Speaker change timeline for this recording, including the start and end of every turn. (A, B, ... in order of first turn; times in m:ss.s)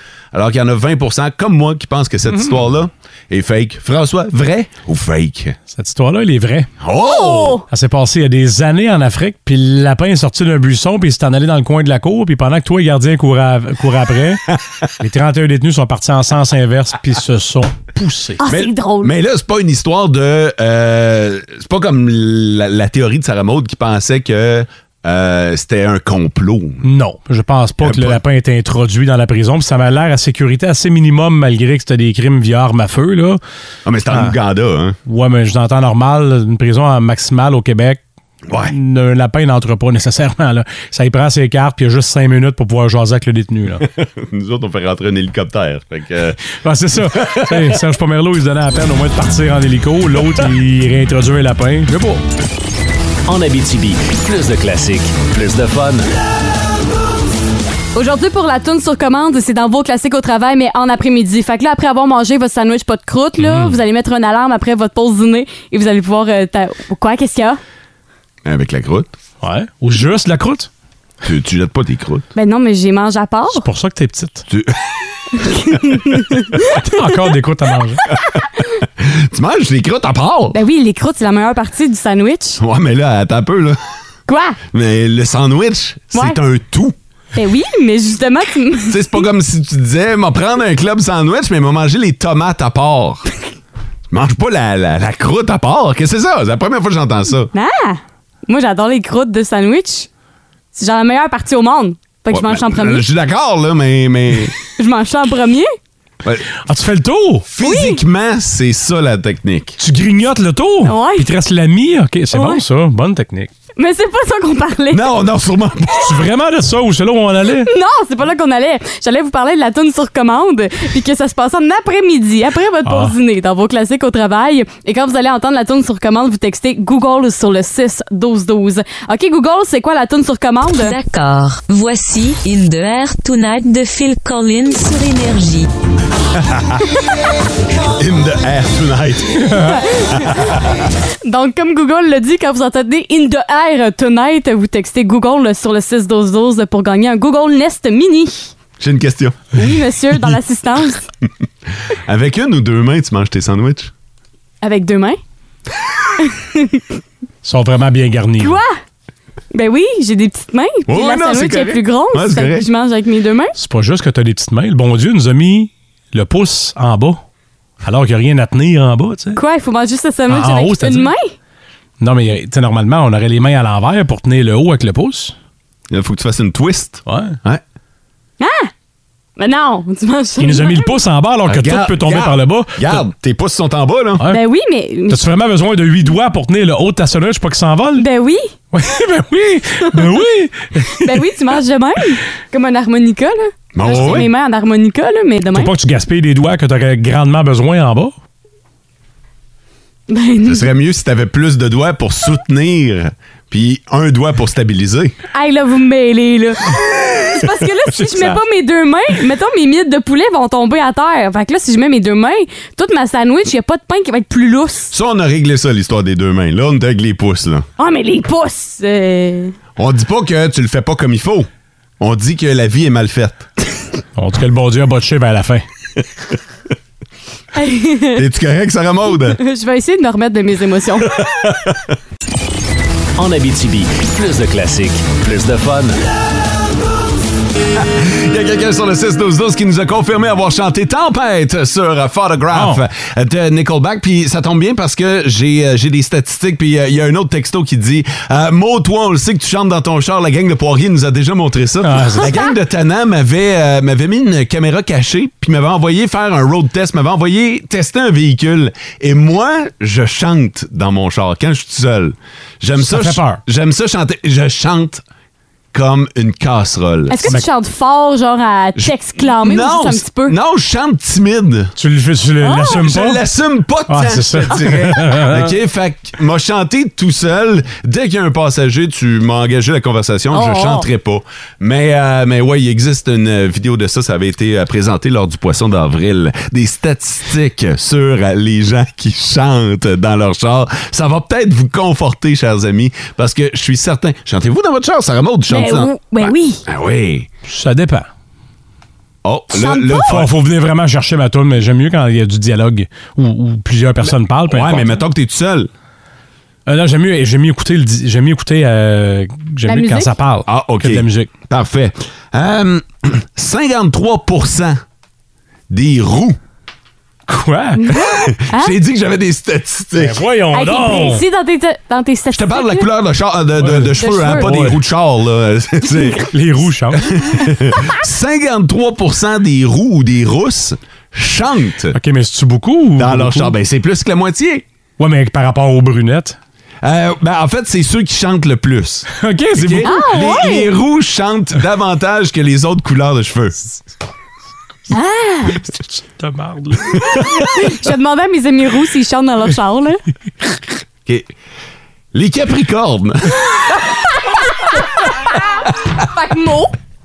0:00.3-0:05.6 A
0:05.7-0:06.7 B
0:06.8-0:07.6 A
0:07.0-0:07.6 C
0:07.7-0:18.4 B
0:18.4-0:19.1 C
0:18.5-0:26.8 A
0:26.8-0:33.4 B
0:27.8-0:28.2 A
0:33.8-0:35.0 A
0:35.0-0:38.0 B
0:38.5-0:38.7 A
0:38.7-0:43.9 B
0:43.8-0:46.4 A
0:46.6-0:52.2 B
0:47.0-0:47.8 A
0:53.2-0:56.0 D
0:57.9-1:07.6 C
1:03.4-1:03.8 B
1:08.4-1:09.1 A
1:09.4-1:10.7 B
1:11.2-1:12.2 A
1:12.3-1:13.6 C
1:13.5-1:14.5 B
1:14.5-1:14.8 A
1:15.4-1:16.8 C
1:16.8-1:18.0 B
1:18.1-1:20.6 A
1:20.5-1:22.6 C
1:22.6-1:23.8 A
1:24.3-1:24.6 C
1:24.7-1:26.9 A
1:27.3-1:29.2 C
1:28.9-1:33.2 A
1:34.1-1:37.5 A
1:37.5-1:40.1 C
1:40.7-1:43.0 C
1:42.3-1:44.6 A
1:44.6-1:45.7 C
1:46.6-1:47.5 B
1:47.5-1:49.8 A
1:47.6-1:48.0 C
1:49.8-1:53.5 B
1:50.8-1:51.3 C
1:52.3-1:52.6 C
1:53.8-1:55.0 C
1:54.9-1:56.2 A
1:56.0-1:57.7 B
1:57.6-2:11.0 C
2:02.8-2:03.1 B
2:10.7-2:15.7 E
2:16.3-2:16.9 A
2:17.8-2:20.6 A
2:19.6-2:20.5 C
2:21.2-2:28.5 C
2:28.8-2:29.6 A
2:29.5-2:31.0 C
2:31.9-2:33.9 A
2:34.6-2:35.2 C
2:36.2-2:36.8 C
2:37.4-2:38.6 B
2:38.4-2:38.7 C
2:39.5-2:43.5 C
2:40.9-2:42.6 A
2:43.6-2:47.2 B
2:47.8-2:49.4 B
2:49.4-2:51.3 C
2:50.3-2:51.1 B
2:52.0-2:55.3 B
2:55.9-2:57.6 A
2:57.1-2:57.4 B
2:58.4-2:58.7 C
2:59.4-3:00.9 C
3:00.4-3:03.0 B
3:01.4-3:04.2 A
3:04.3-3:05.2 C
3:05.1-3:08.1 B
3:08.0-3:08.5 C
3:08.7-3:11.2 B
3:11.0-3:15.7 C
3:13.8-3:14.3 A
3:15.5-3:18.1 B
3:20.1-3:20.7 C
3:20.4-3:25.1 A
3:25.3-3:34.9 C
3:28.1-3:28.4 B
3:34.9-3:37.7 A
3:37.8-3:39.5 C
3:39.8-3:41.5 A
3:42.0-3:43.5 A
3:44.2-3:45.6 B
3:47.5-3:48.2 C
3:48.1-3:49.4 A
3:49.2-3:51.2 C
3:51.0-3:51.8 A
3:53.2-3:56.0 D
3:57.8-4:25.0 A
4:02.5-4:02.8 B
4:11.8-4:12.3 B
4:22.8-4:23.4 B
4:25.7-4:27.4 A
4:27.1-4:30.4 C
4:28.8-4:31.7 A
4:31.8-4:33.2 B
4:32.4-4:32.8 C
4:32.7-4:57.3 A
4:33.9-4:35.5 B
4:40.3-4:40.8 C
4:55.5-4:56.6 C
4:57.4-4:58.1 B
4:59.2-5:00.3 A
4:59.5-5:00.1 C
5:00.0-5:05.0 B
5:04.5-5:05.7 A
5:06.7-5:11.3 B
5:09.6-5:10.1 C
5:10.5-5:14.8 A
5:15.7-5:16.4 A
5:17.3-5:17.9 B
5:17.8-5:18.8 C
5:17.9-5:20.2 A
5:20.0-5:21.2 B
5:20.5-5:22.8 C
5:22.3-5:26.3 A
5:23.6-5:24.8 B
5:24.0-5:24.5 C
5:26.3-5:27.1 B
5:26.9-5:32.0 A
5:31.9-5:33.5 B
5:33.0-5:34.6 A
5:35.0-5:36.4 B
5:36.8-5:43.6 A
5:39.1-5:40.1 B
5:39.8-5:40.7 C
5:44.9-5:45.6 C
5:45.6-5:47.0 B
5:47.5-5:50.0 C
5:52.1-5:53.5 A
5:55.0-5:55.4 C
5:56.0-5:56.7 C